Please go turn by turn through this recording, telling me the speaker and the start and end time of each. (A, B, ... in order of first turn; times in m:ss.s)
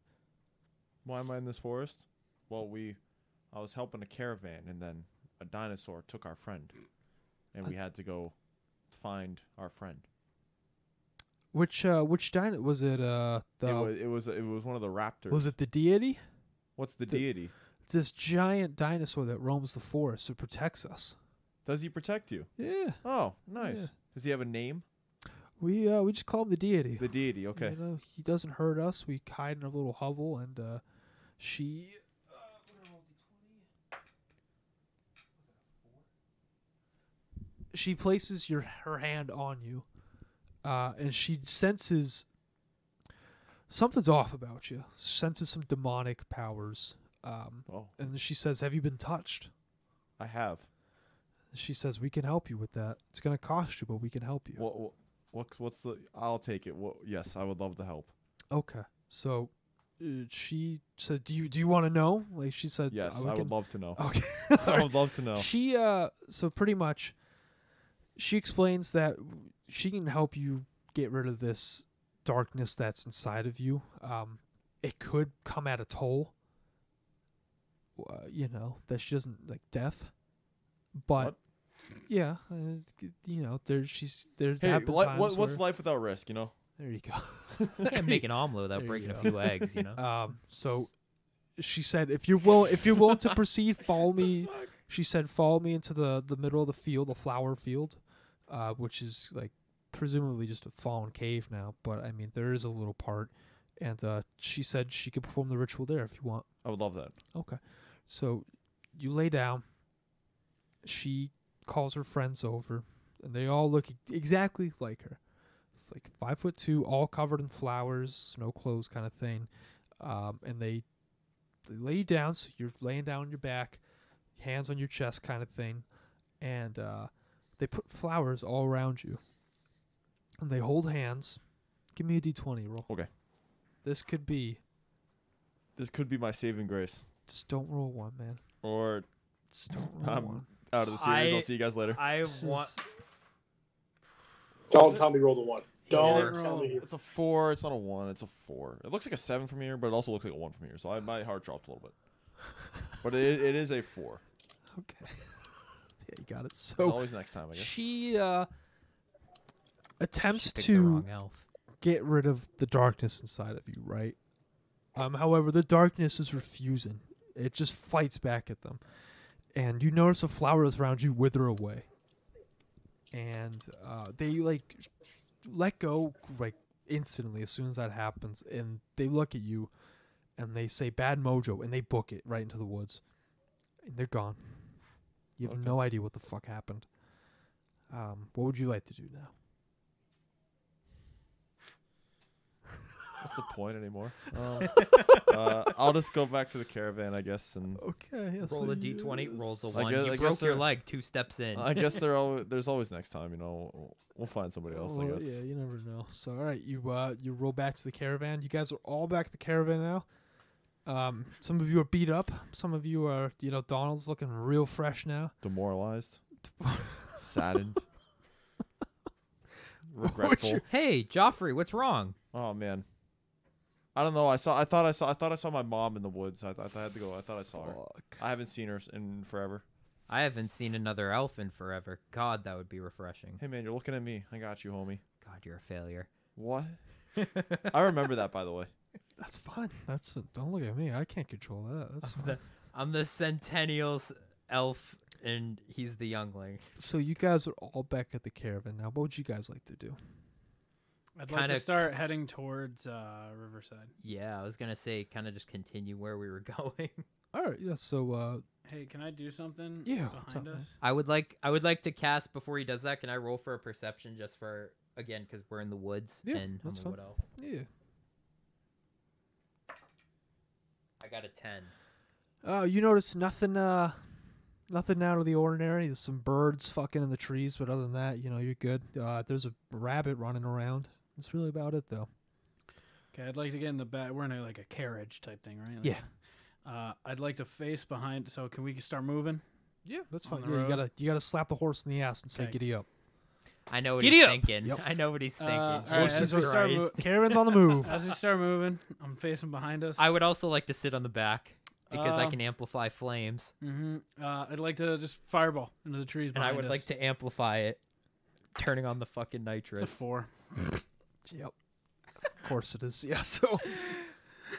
0:01.0-0:06.7 A
0:07.5-0:08.4 A
0:08.9-0:10.0 A
0:11.5-0:13.9 B
0:13.6-0:15.5 A
0:15.3-0:16.2 B
0:16.8-0:17.5 A
0:17.9-0:21.2 B
0:21.6-0:22.5 A
0:22.6-0:23.0 B
0:23.0-0:24.8 A
0:23.6-0:23.9 B
0:25.6-0:30.8 B
0:27.0-0:27.8 A
0:31.4-0:33.7 B
0:35.4-0:36.0 B
0:37.7-0:39.8 B
0:40.6-0:42.3 B
0:43.7-0:49.5 B
0:47.7-0:48.0 A
0:50.2-0:50.7 A
0:51.5-0:54.6 B
0:54.6-0:58.1 A
0:58.5-1:07.2 B
1:02.9-1:05.5 A
1:08.2-1:16.3 B
1:18.0-1:20.1 B
1:21.0-1:21.3 B
1:22.1-1:25.6 B
1:24.6-1:26.5 A
1:26.8-1:30.9 B
1:27.6-1:27.9 A
1:27.8-1:30.0 C
1:31.6-1:46.5 B
1:46.6-1:47.2 A
1:47.3-1:49.6 B
1:50.8-1:55.2 B
1:55.8-1:59.5 B
2:00.0-2:00.8 B
2:01.6-2:03.8 B
2:04.4-2:05.8 B
2:06.4-2:09.2 B
2:10.4-2:11.4 B
2:11.9-2:12.9 B
2:13.8-2:14.6 B
2:15.8-2:17.0 A
2:17.3-2:18.4 B
2:18.6-2:19.1 A
2:19.5-2:20.5 B
2:19.8-2:22.0 A
2:20.8-2:22.8 C
2:22.4-2:22.7 B
2:24.7-2:26.9 D
2:25.9-2:26.8 E
2:25.9-2:26.3 C
2:26.8-2:32.0 A
2:33.0-2:34.2 A
2:34.8-2:38.5 B
2:36.8-2:37.8 A
2:40.0-2:41.1 B
2:40.3-2:41.4 C
2:41.8-2:44.2 B
2:45.0-2:48.8 B
2:49.5-2:51.9 B
2:53.1-2:54.9 B
2:55.4-2:59.7 B
3:00.4-3:03.0 B
3:03.8-3:04.7 B
3:05.4-3:06.9 B
3:05.4-3:05.8 A
3:07.9-3:09.3 B
3:13.2-3:17.8 A
3:14.7-3:15.5 C
3:17.8-3:20.1 B
3:18.4-3:22.0 C
3:19.7-3:20.7 A
3:21.5-3:25.4 A
3:24.7-3:30.1 B
3:30.8-3:35.4 B
3:35.4-3:36.2 A
3:36.5-3:37.3 B
3:37.2-3:37.8 A
3:39.9-3:40.6 A
3:40.0-3:40.6 B
3:40.7-3:42.2 C
3:42.3-3:42.9 A
3:44.0-3:49.6 A
3:47.5-3:48.2 B
3:50.1-3:53.4 C
3:53.4-3:55.0 A
3:55.2-3:56.1 C
3:56.4-3:56.8 A
3:57.2-3:57.9 C
3:57.7-3:58.7 A
3:59.2-4:02.4 B
4:02.0-4:06.8 C
4:06.8-4:10.0 B
4:11.2-4:13.9 E
4:11.3-4:11.8 C
4:14.0-4:17.1 C
4:17.3-4:18.4 B
4:18.6-4:20.7 E
4:19.8-4:20.7 B
4:20.8-4:27.2 C
4:26.2-4:27.7 B
4:31.0-4:31.7 C
4:32.4-4:34.0 B
4:34.7-4:42.1 B
4:43.1-4:46.0 E
4:46.6-4:49.4 E
4:49.8-4:52.9 B
4:50.2-4:50.8 E
4:53.7-4:58.1 C
4:54.0-4:54.5 E
4:55.4-4:57.1 E
4:55.8-4:58.0 B
4:57.8-5:00.0 E
5:00.0-5:03.5 C
5:01.9-5:02.4 E
5:03.6-5:06.9 E
5:06.3-5:07.8 C
5:08.6-5:10.0 C
5:09.8-5:10.3 E
5:11.3-5:11.5 B
5:12.4-5:14.0 B